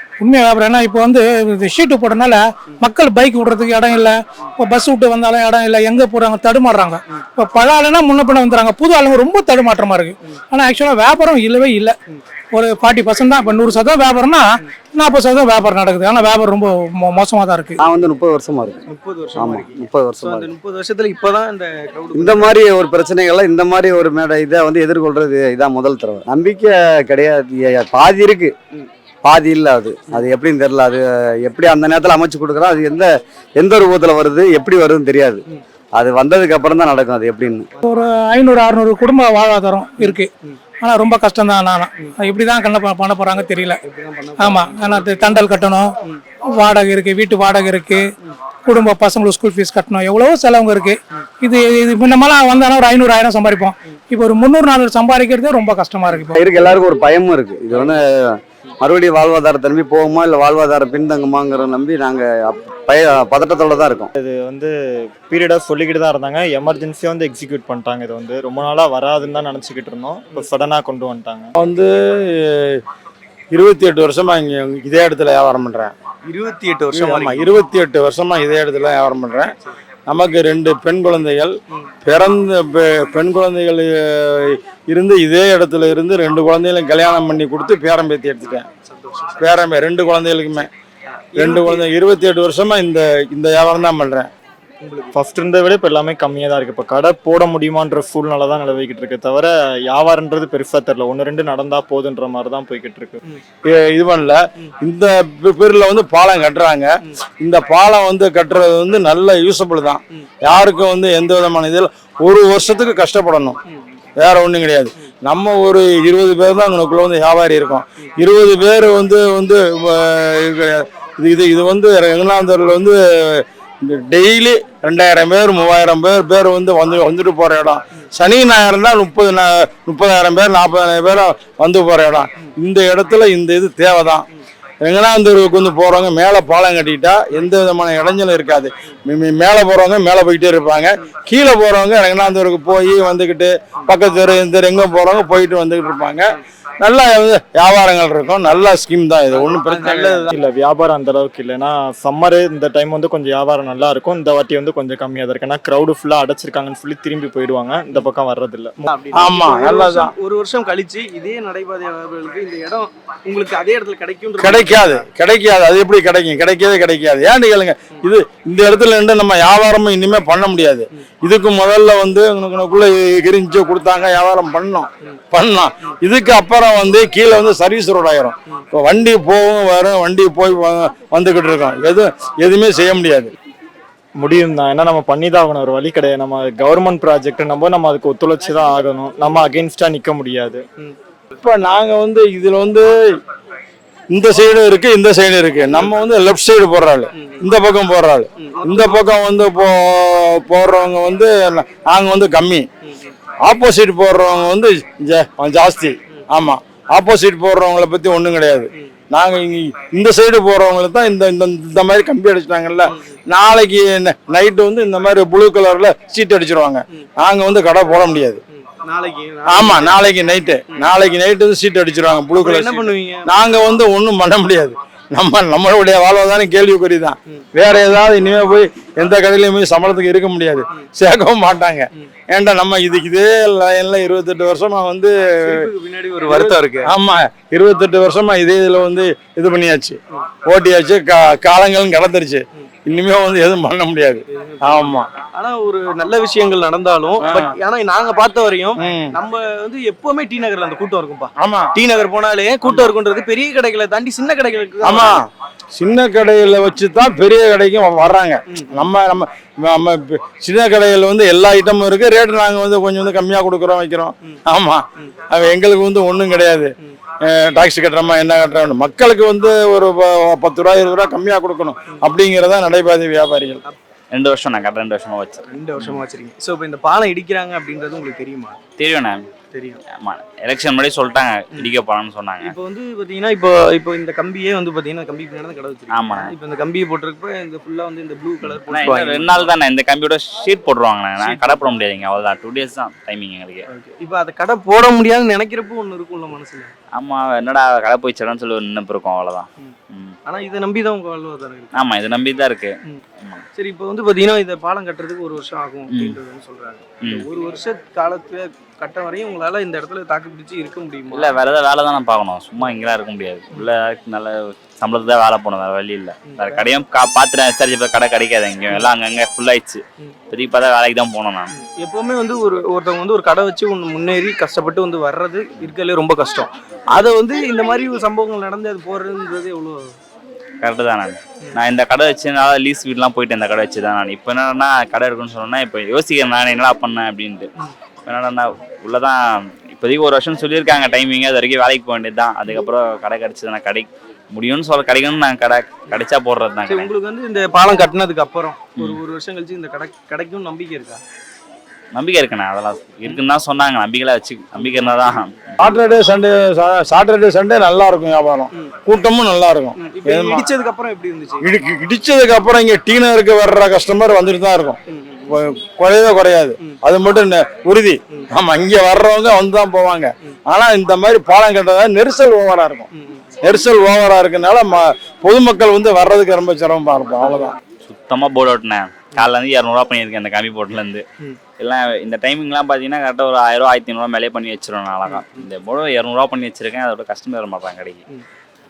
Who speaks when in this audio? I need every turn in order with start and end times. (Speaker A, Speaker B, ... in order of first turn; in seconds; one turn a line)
Speaker A: 0.2-12.0
Speaker A: 12.5-17.8
Speaker B: 17.8-18.8
Speaker C: 18.9-22.6
Speaker B: 19.4-20.5
Speaker B: 22.1-28.6
Speaker B: 29.2-35.5
Speaker B: 36.0-37.7
Speaker A: 37.8-40.3
Speaker C: 40.0-40.6
Speaker A: 40.8-43.8
Speaker C: 43.8-45.5
Speaker A: 44.4-45.9
Speaker A: 46.5-48.0
Speaker A: 48.6-56.4
Speaker B: 56.3-64.1
Speaker D: 64.2-64.7
Speaker D: 65.2-71.5
Speaker E: 71.6-72.8
Speaker E: 73.5-75.9
Speaker C: 76.2-77.5
Speaker E: 76.9-79.5
Speaker E: 80.1-88.7
Speaker C: 88.9-89.5
Speaker E: 89.4-90.7
Speaker C: 91.3-91.9
Speaker E: 91.4-94.3
Speaker C: 94.8-95.1
Speaker D: 95.1-103.2
Speaker E: 103.7-113.6
Speaker E: 114.2-134.3
Speaker E: 134.8-150.3
Speaker C: 149.3-150.3
Speaker D: 150.3-158.9
Speaker C: 158.9-165.0
Speaker E: 159.1-160.1
Speaker E: 164.4-183.3
Speaker D: 184.2-190.6
Speaker E: 191.4-192.9
Speaker E: 194.1-202.7
Speaker C: 197.2-197.4
Speaker C: 198.4-199.1
Speaker C: 202.8-203.2
Speaker E: 203.4-218.4
Speaker C: 218.5-220.0
Speaker E: 219.5-235.6
Speaker C: 222.3-223.3
Speaker C: 235.4-236.9
Speaker E: 236.3-245.2
Speaker C: 244.3-255.2
Speaker E: 247.2-247.5
Speaker E: 248.8-249.2
Speaker E: 251.4-251.7
Speaker E: 254.8-255.2
Speaker E: 255.8-266.7
Speaker C: 258.5-258.9
Speaker E: 267.2-273.6
Speaker F: 274.1-276.0
Speaker C: 275.5-278.6
Speaker F: 278.8-279.2
Speaker C: 279.5-279.8
Speaker F: 280.0-282.5
Speaker C: 282.4-289.5
Speaker F: 285.9-286.3
Speaker F: 288.4-293.7
Speaker C: 291.2-291.7
Speaker C: 293.7-296.7
Speaker F: 296.9-300.1
Speaker C: 300.3-301.7
Speaker F: 301.7-303.4
Speaker C: 303.6-311.4
Speaker F: 311.1-321.5
Speaker C: 316.3-316.7
Speaker C: 321.6-329.8
Speaker F: 330.6-337.5
Speaker F: 338.1-339.2
Speaker F: 339.7-346.9
Speaker C: 346.7-351.0
Speaker F: 351.9-355.3
Speaker C: 354.6-355.1
Speaker E: 355.6-360.5
Speaker C: 359.8-361.4
Speaker E: 361.4-372.9
Speaker C: 364.9-365.2
Speaker C: 372.9-373.3
Speaker E: 373.4-377.6
Speaker F: 377.9-381.1
Speaker F: 381.6-388.0
Speaker C: 385.1-385.4